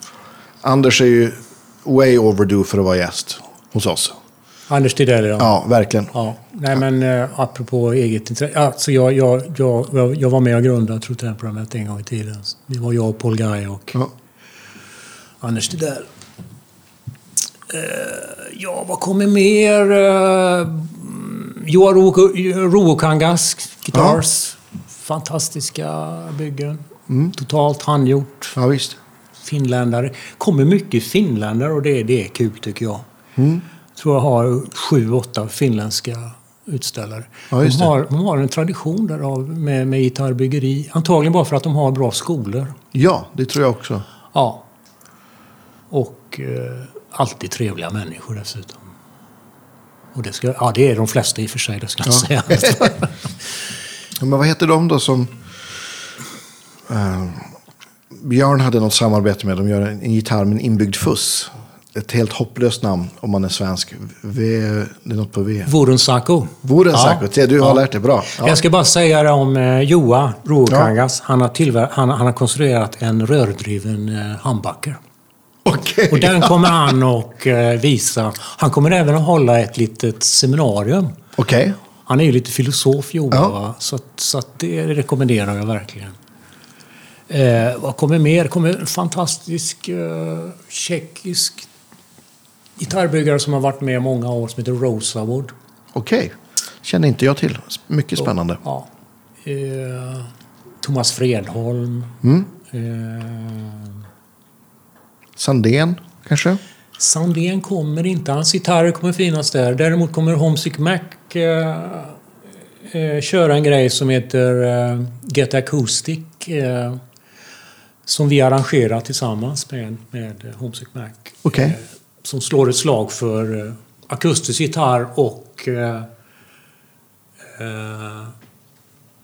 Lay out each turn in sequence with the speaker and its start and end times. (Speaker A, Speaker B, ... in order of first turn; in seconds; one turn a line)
Speaker A: 0.6-4.2
Speaker B: 4.7-5.6
Speaker A: 5.4-6.1
Speaker B: 6.1-14.0
Speaker B: 15.4-16.1
Speaker B: 17.7-28.6
Speaker A: 23.9-24.2
Speaker A: 27.1-27.3
Speaker A: 28.6-29.0
Speaker B: 29.4-33.1
Speaker A: 33.4-33.6
Speaker B: 34.0-42.8
Speaker A: 37.5-37.9
Speaker A: 42.9-44.0
Speaker B: 44.3-44.6
Speaker B: 45.9-48.9
Speaker B: 50.1-53.3
Speaker A: 52.1-52.9
Speaker A: 54.2-55.4
Speaker A: 56.9-57.5
Speaker A: 58.1-65.7
Speaker B: 65.7-75.0
Speaker A: 66.6-68.6
Speaker A: 75.7-76.8
Speaker B: 76.1-81.2
Speaker A: 81.4-81.8
Speaker B: 82.1-86.2
Speaker B: 87.3-91.7
Speaker B: 92.8-95.5
Speaker A: 95.9-98.6
Speaker B: 98.2-98.9
Speaker B: 99.4-100.3
Speaker B: 100.8-104.0
Speaker A: 105.4-106.6
Speaker B: 107.0-112.2
Speaker B: 112.8-117.0
Speaker B: 118.1-126.1
Speaker A: 121.5-121.8
Speaker B: 127.6-128.3